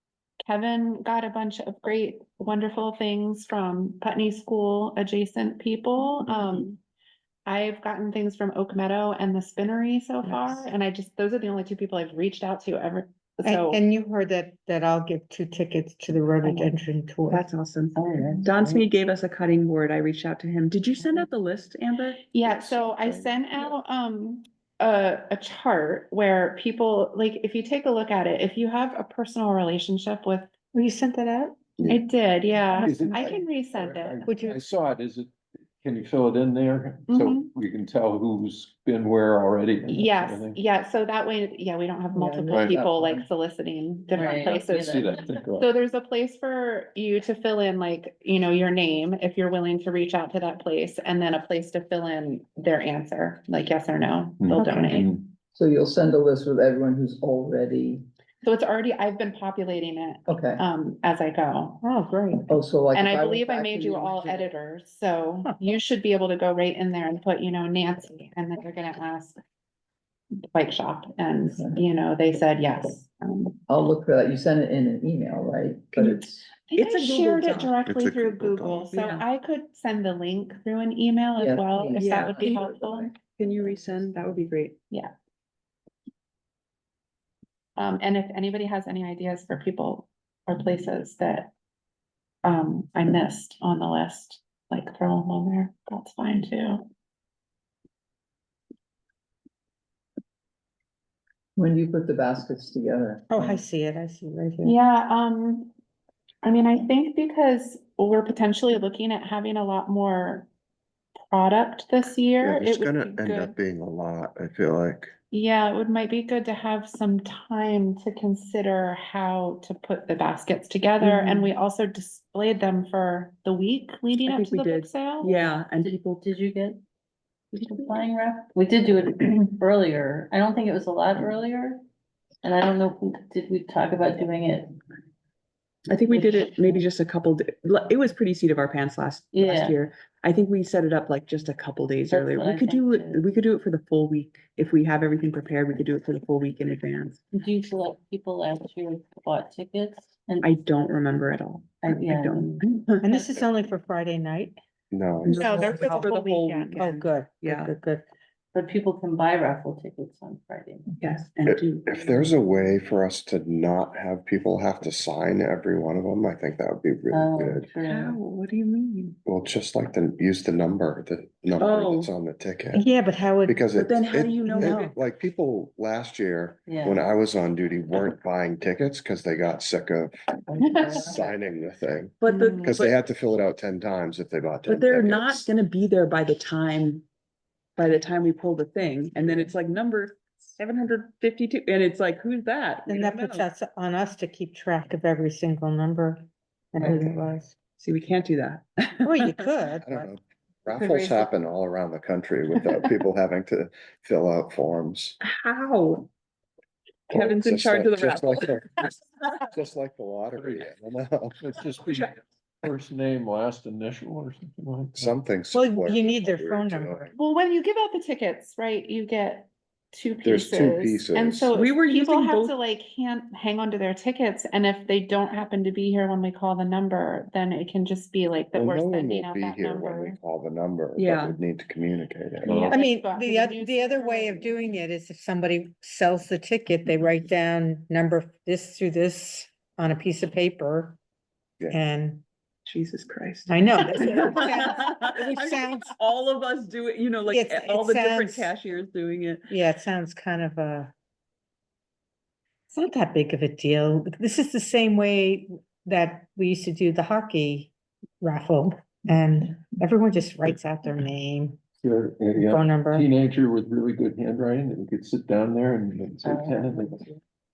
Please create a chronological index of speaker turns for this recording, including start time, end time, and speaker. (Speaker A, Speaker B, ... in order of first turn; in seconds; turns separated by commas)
Speaker A: 0.5-6.7, Speaker B: 6.3-6.7, Speaker A: 7.5-13.8, Speaker C: 10.2-10.7, Speaker C: 13.4-17.5, Speaker B: 16.4-16.8, Speaker B: 17.3-22.3, Speaker D: 18.0-18.8, Speaker A: 22.3-30.5, Speaker E: 22.4-23.3, Speaker C: 30.7-31.5, Speaker A: 31.9-34.3, Speaker F: 32.7-40.6, Speaker C: 34.2-34.6, Speaker A: 37.1-37.5, Speaker A: 39.9-55.1, Speaker C: 42.1-42.6, Speaker G: 42.5-43.2, Speaker D: 44.1-45.3, Speaker F: 44.4-45.7, Speaker F: 54.4-55.3, Speaker C: 54.6-54.9, Speaker G: 55.5-58.0, Speaker A: 58.4-61.8, Speaker G: 60.3-60.6, Speaker C: 61.8-62.5, Speaker G: 62.5-64.5, Speaker A: 62.9-69.4, Speaker A: 70.5-73.6, Speaker G: 71.5-71.8, Speaker G: 73.7-76.5, Speaker A: 76.0-83.1, Speaker B: 76.8-77.8, Speaker E: 77.8-78.9, Speaker B: 78.9-79.2, Speaker G: 81.4-83.1, Speaker B: 82.0-84.8, Speaker A: 87.8-91.5, Speaker A: 92.4-96.8, Speaker G: 101.6-103.6, Speaker C: 103.3-104.8, Speaker A: 104.6-105.7, Speaker A: 106.4-110.5, Speaker A: 111.3-113.5, Speaker E: 112.4-115.1, Speaker A: 115.3-125.3, Speaker B: 121.1-121.4, Speaker B: 124.3-126.3, Speaker D: 125.2-126.8, Speaker D: 127.5-131.8, Speaker B: 127.8-128.0, Speaker D: 132.4-134.8, Speaker B: 135.9-147.2, Speaker D: 136.1-136.8, Speaker D: 139.3-139.8, Speaker D: 142.1-143.2, Speaker D: 147.3-150.5, Speaker B: 150.4-153.0, Speaker D: 151.8-152.6, Speaker C: 153.0-154.6, Speaker E: 154.9-155.8, Speaker B: 155.2-157.7, Speaker C: 155.3-156.2, Speaker A: 155.4-156.9, Speaker C: 156.8-158.1, Speaker D: 158.5-160.9, Speaker B: 161.0-162.1, Speaker E: 161.5-167.7, Speaker D: 162.2-162.5, Speaker D: 167.1-168.2, Speaker B: 167.8-169.2, Speaker E: 169.3-172.9, Speaker B: 171.6-172.1, Speaker C: 172.7-173.6, Speaker E: 173.4-185.5, Speaker B: 173.7-174.9, Speaker C: 174.4-174.9, Speaker D: 176.7-177.0, Speaker D: 180.5-181.3, Speaker B: 182.2-183.0, Speaker A: 182.3-182.8, Speaker B: 184.7-187.1, Speaker B: 187.8-193.5, Speaker C: 192.9-197.5, Speaker B: 197.8-199.5, Speaker C: 199.1-200.1, Speaker E: 199.8-205.2, Speaker B: 205.2-206.1, Speaker B: 207.1-208.9, Speaker E: 207.1-211.4, Speaker F: 210.4-210.7, Speaker F: 211.4-215.2, Speaker B: 211.8-212.1, Speaker E: 214.9-217.1, Speaker C: 215.5-217.1, Speaker A: 217.2-230.2, Speaker E: 220.2-221.5, Speaker B: 221.5-222.6, Speaker E: 228.5-232.8, Speaker B: 231.0-231.4, Speaker A: 232.4-234.6, Speaker C: 232.7-241.0, Speaker C: 241.7-242.2, Speaker B: 242.7-249.5, Speaker C: 243.5-246.0, Speaker C: 247.3-248.5, Speaker C: 249.5-250.9, Speaker C: 252.7-261.6, Speaker F: 261.8-267.1, Speaker C: 262.3-263.1, Speaker D: 266.2-267.2